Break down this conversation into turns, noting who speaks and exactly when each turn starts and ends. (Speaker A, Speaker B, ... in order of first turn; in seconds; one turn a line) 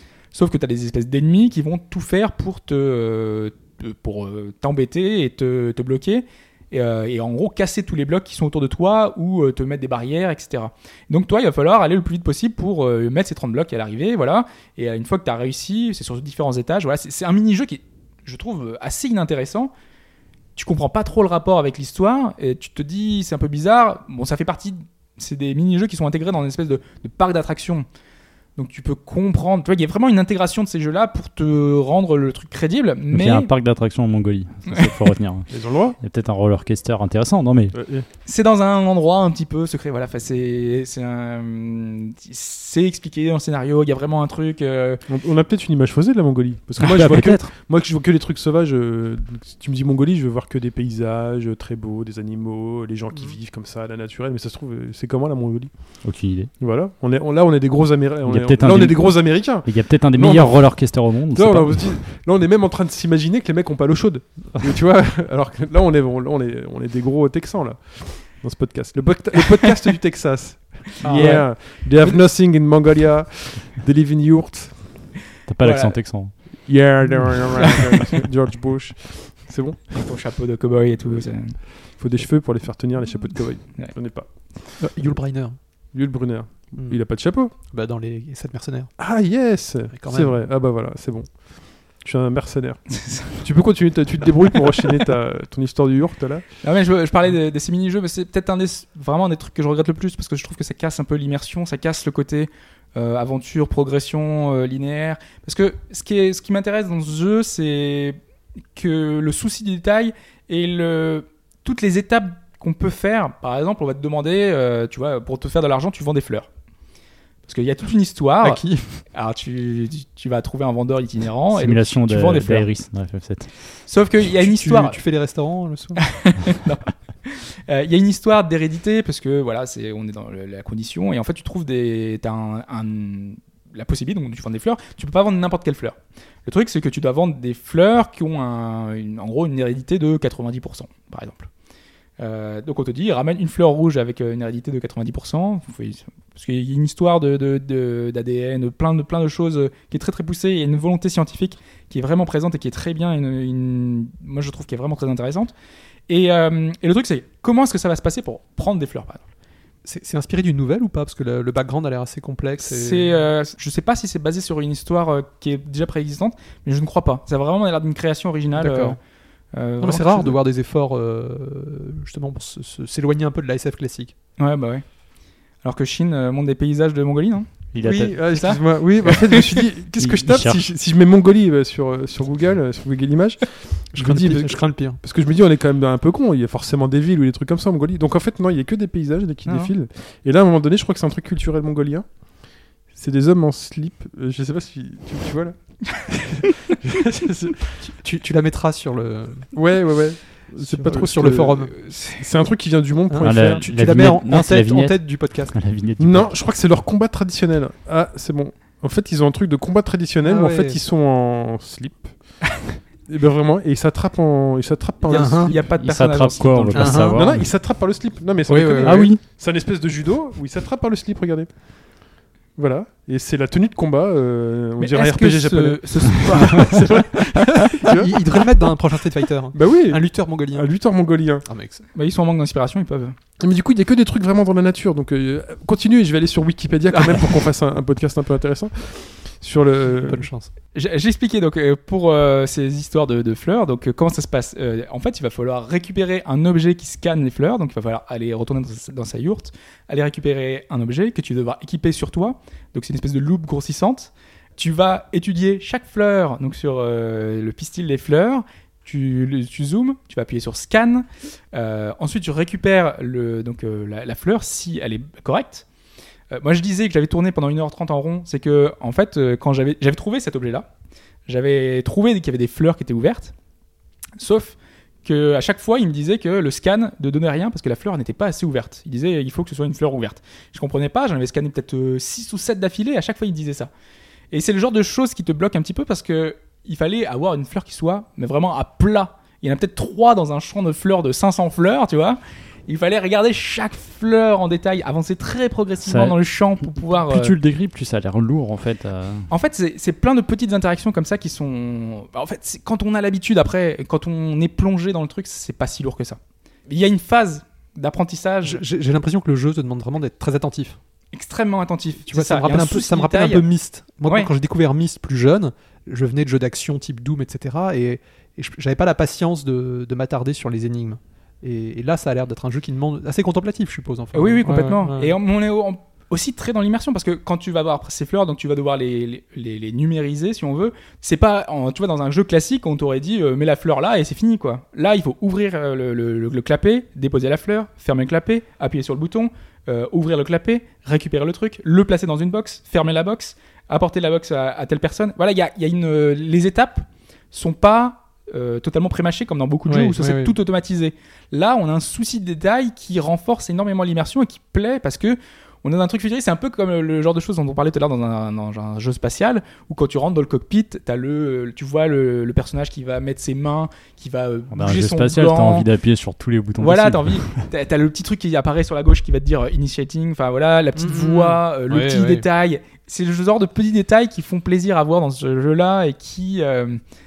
Speaker A: 0.3-19.7
Speaker A: 20.6-27.9
Speaker A: 28.6-33.5
Speaker B: 33.1-35.5
Speaker A: 34.7-34.9
Speaker C: 35.5-36.0
Speaker B: 36.0-37.7
Speaker C: 37.7-38.0
Speaker A: 38.2-45.0
Speaker C: 45.1-55.7
Speaker B: 46.8-47.5
Speaker B: 56.0-56.5
Speaker C: 56.6-75.0
Speaker B: 58.2-62.0
Speaker A: 71.0-72.2
Speaker D: 71.0-71.4
Speaker B: 75.5-76.3
Speaker A: 75.6-76.0
Speaker C: 76.7-80.0
Speaker A: 77.6-78.0
Speaker A: 79.9-81.6
Speaker C: 81.9-84.3
Speaker D: 84.8-85.6
Speaker C: 85.9-87.5
Speaker D: 87.6-88.9
Speaker C: 89.0-96.4
Speaker D: 89.9-90.4
Speaker A: 93.0-93.3
Speaker A: 96.6-108.2
Speaker A: 108.7-116.5
Speaker A: 117.5-122.7
Speaker D: 118.4-119.0
Speaker B: 121.5-123.5
Speaker A: 123.9-125.0
Speaker D: 124.4-126.0
Speaker A: 126.0-141.5
Speaker A: 142.2-155.5
Speaker A: 156.1-159.2
Speaker D: 159.8-163.2
Speaker A: 162.6-169.0
Speaker D: 168.6-169.0
Speaker A: 169.5-170.3
Speaker D: 169.8-174.1
Speaker A: 174.4-174.8
Speaker A: 175.6-179.6
Speaker B: 177.7-178.2
Speaker C: 177.8-192.1
Speaker B: 180.0-180.6
Speaker D: 183.9-185.0
Speaker A: 189.4-189.7
Speaker C: 192.9-197.7
Speaker D: 197.8-199.5
Speaker C: 199.5-203.7
Speaker D: 200.6-201.7
Speaker A: 201.9-202.2
Speaker D: 203.1-205.5
Speaker B: 203.2-206.3
Speaker C: 206.0-212.1
Speaker D: 210.2-210.8
Speaker C: 213.1-215.7
Speaker D: 215.1-215.5
Speaker A: 215.1-217.2
Speaker B: 215.8-217.5
Speaker D: 216.7-217.2
Speaker C: 217.1-221.5
Speaker D: 218.5-219.2
Speaker C: 222.6-228.1
Speaker A: 224.8-227.2
Speaker D: 227.4-230.7
Speaker C: 229.5-231.4
Speaker D: 231.5-231.8
Speaker A: 231.9-233.2
Speaker C: 233.4-240.3
Speaker D: 239.9-240.5
Speaker A: 240.7-265.6
Speaker A: 266.3-270.7
Speaker A: 271.3-273.3
Speaker A: 274.2-283.7
Speaker A: 284.3-297.4
Speaker B: 295.8-296.1
Speaker B: 297.1-299.3
Speaker A: 299.3-308.6
Speaker D: 308.4-310.8
Speaker A: 311.1-313.4
Speaker D: 312.1-325.1
Speaker A: 324.1-365.7
Speaker D: 349.7-350.3
Speaker B: 364.5-367.4
Speaker A: 366.6-376.8
Speaker D: 370.8-372.2